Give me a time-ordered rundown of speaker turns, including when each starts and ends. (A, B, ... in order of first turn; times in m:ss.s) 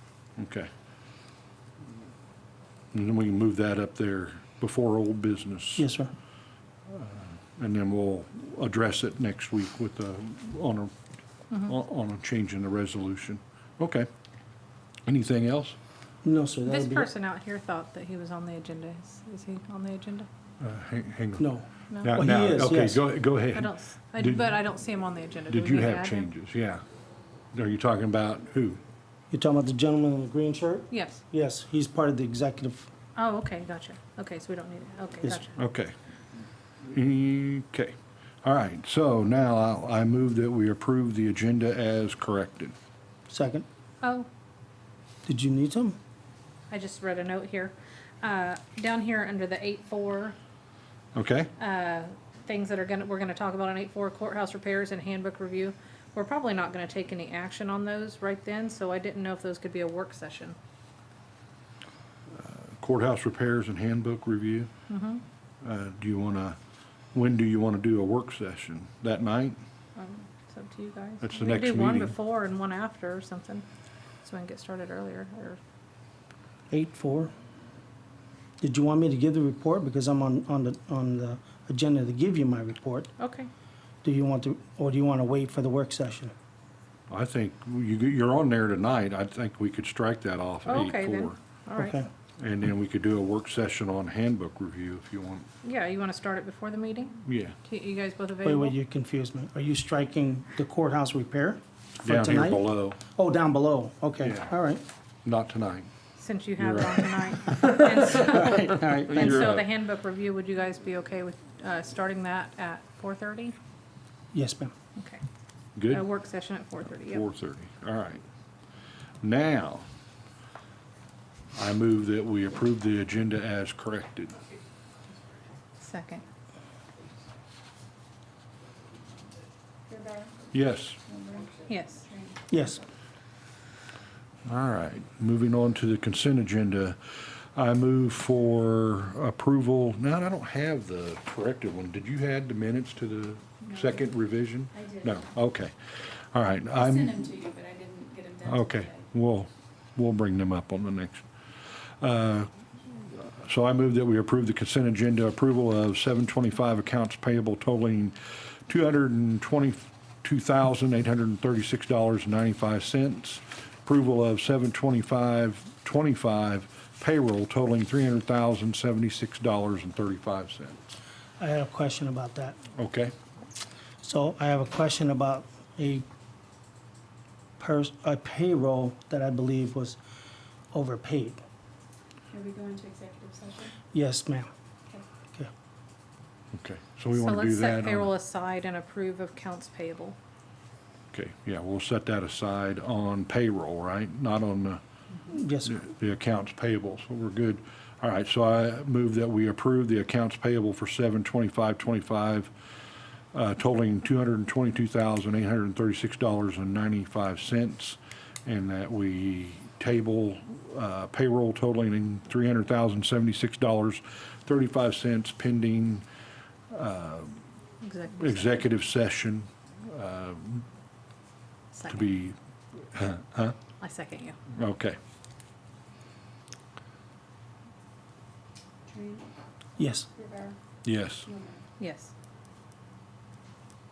0:00.4-0:00.7 A
0:02.9-0:05.9 A
0:05.8-0:06.1 B
0:06.9-0:10.9 A
0:11.6-0:14.1 A
0:15.0-0:15.8 A
0:16.2-0:17.1 B
0:16.6-0:20.3 C
0:20.6-0:24.5 A
0:21.4-0:23.0 B
0:23.5-0:26.3 C
0:25.5-0:26.8 A
0:27.5-0:28.8 A
0:29.3-0:32.9 B
0:30.9-0:31.2 C
0:33.2-0:35.6 C
0:35.6-0:35.9 A
0:36.8-0:42.7 A
0:43.3-0:43.6 B
0:44.0-0:44.3 C
0:45.2-0:46.0 B
0:46.7-0:50.4 C
0:51.1-0:51.5 A
0:51.6-1:00.6 C
1:02.3-1:04.7 A
1:04.9-1:05.2 C
1:05.6-1:06.6 A
1:07.1-1:09.6 A
1:10.0-1:13.6 C
1:11.2-1:12.2 A
1:14.2-1:15.6 C
1:16.7-1:17.3 B
1:18.6-1:23.1 B
1:23.2-1:23.5 C
1:24.0-1:26.3 B
1:27.1-1:31.4 A
1:30.6-1:32.0 C
1:31.8-1:32.1 B
1:32.4-1:35.5 A
1:35.6-1:38.7 C
1:37.2-1:37.6 A
1:38.4-1:44.8 B
1:42.0-1:43.0 A
1:44.2-1:44.5 A
1:45.2-1:45.9 A
1:46.2-1:53.6 C
1:46.6-1:49.7 A
1:48.0-1:49.5 B
1:54.3-1:54.7 B
1:55.0-1:55.2 C
1:55.8-1:56.0 A
1:55.9-1:57.3 C
1:57.0-1:58.2 A
1:59.2-1:59.8 A
2:01.5-2:04.4 A
2:05.8-2:06.2 C
2:09.9-2:10.3 D
2:10.5-2:11.0 A
2:11.0-2:12.4 D
2:11.7-2:12.1 C
2:12.5-2:12.8 B
2:14.4-2:27.4 A
2:24.8-2:25.0 D
2:26.8-2:29.0 D
2:28.4-2:31.2 A
2:32.0-2:50.8 A
2:51.4-2:52.6 B
2:52.8-2:53.1 A
2:54.0-2:56.0 B
2:57.6-3:00.0 B
3:00.7-3:01.4 B
3:02.3-3:03.7 D
3:03.9-3:04.5 B
3:06.5-3:08.1 A
3:07.1-3:10.2 C
3:11.1-3:14.8 A
3:15.3-3:15.8 B
3:15.6-3:22.5 A
3:23.3-3:36.0 A
3:36.7-3:37.4 A
3:37.8-3:38.6 C
3:38.2-3:40.6 A
3:41.7-3:42.1 C
3:41.9-3:43.6 A
3:43.8-3:44.4 C
3:44.5-3:45.0 A
3:48.9-3:49.2 D
3:49.8-3:50.1 B
3:50.1-3:50.6 D
3:50.8-3:51.3 A
3:51.2-3:51.6 D
3:51.8-3:52.1 C